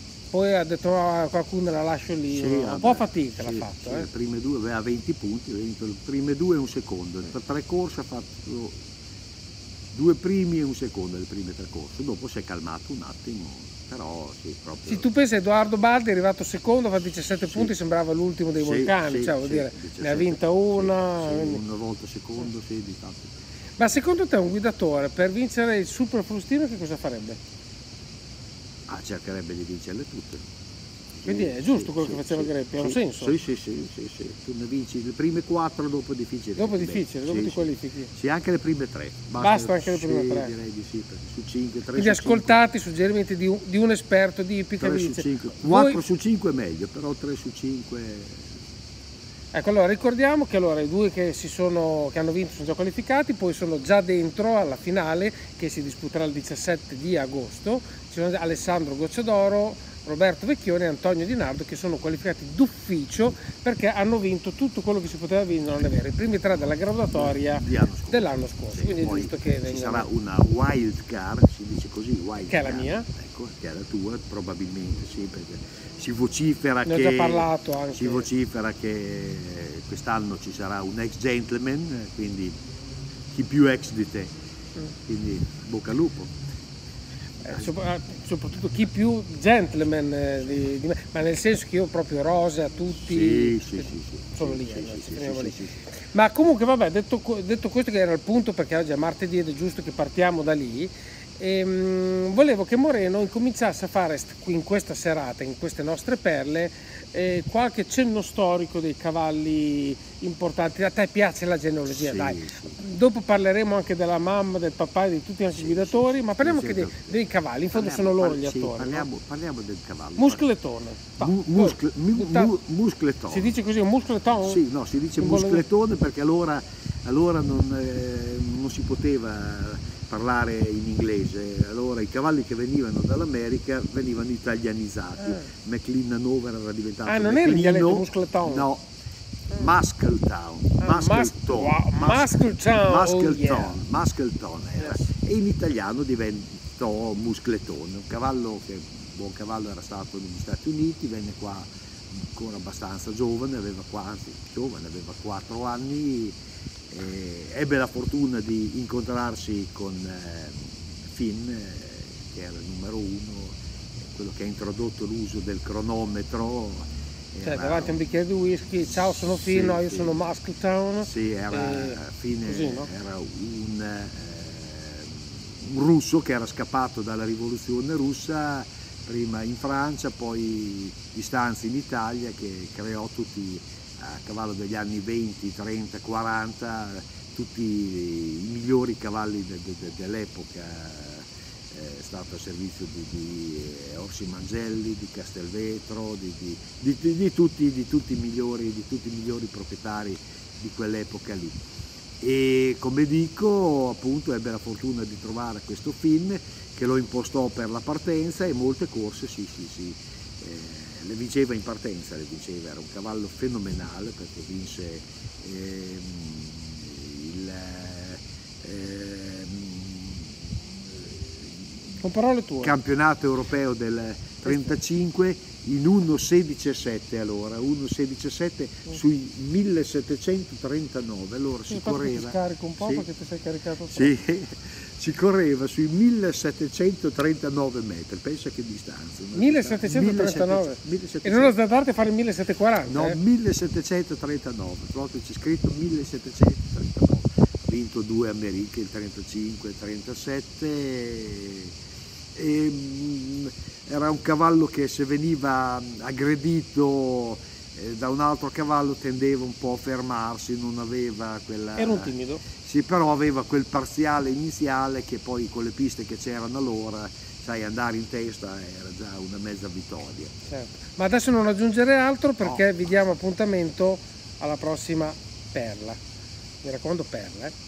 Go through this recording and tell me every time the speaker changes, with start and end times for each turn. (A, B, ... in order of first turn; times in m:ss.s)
0:00.3-0:04.1 A
0:02.3-0:08.8 B
0:09.9-0:15.1 B
0:14.8-0:21.6 A
0:18.6-0:23.3 B
0:23.8-0:27.4 A
0:28.9-0:30.4 B
0:31.1-0:42.6 B
0:31.2-0:33.3 A
0:36.6-0:38.1 A
0:39.4-0:40.5 A
0:42.0-0:46.0 A
0:44.8-0:48.4 B
0:49.5-1:10.1 A
1:07.1-1:22.5 B
1:12.5-1:13.1 A
1:16.8-1:18.3 A
1:23.3-1:24.3 B
1:25.1-1:26.3 B
1:27.4-1:59.1 A
1:33.0-1:35.8 B
1:51.9-1:52.8 B
1:55.6-1:57.2 B
1:57.7-2:00.5 B
2:00.2-2:02.5 A
2:01.2-2:03.5 B
2:03.3-2:04.6 A
2:04.4-2:18.8 B
2:05.2-2:05.6 A
2:15.2-2:15.5 A
2:17.0-2:18.7 A
2:19.5-2:31.7 B
2:20.8-2:23.8 A
2:24.8-2:25.0 A
2:32.2-2:36.4 B
2:36.9-2:43.6 B
2:44.1-2:48.0 B
2:47.4-2:52.9 A
2:49.4-2:50.2 B
2:51.0-3:21.6 B
3:22.2-3:40.3 B
3:42.0-3:42.7 A
3:42.6-3:53.0 B
3:44.4-3:44.7 A
3:51.7-3:54.1 A
3:53.9-4:01.6 B
3:59.3-4:03.2 A
4:02.8-4:11.7 B
4:12.3-4:22.1 B
4:21.8-4:22.4 A
4:22.6-4:30.3 B
4:30.5-4:36.0 A
4:36.6-4:37.5 A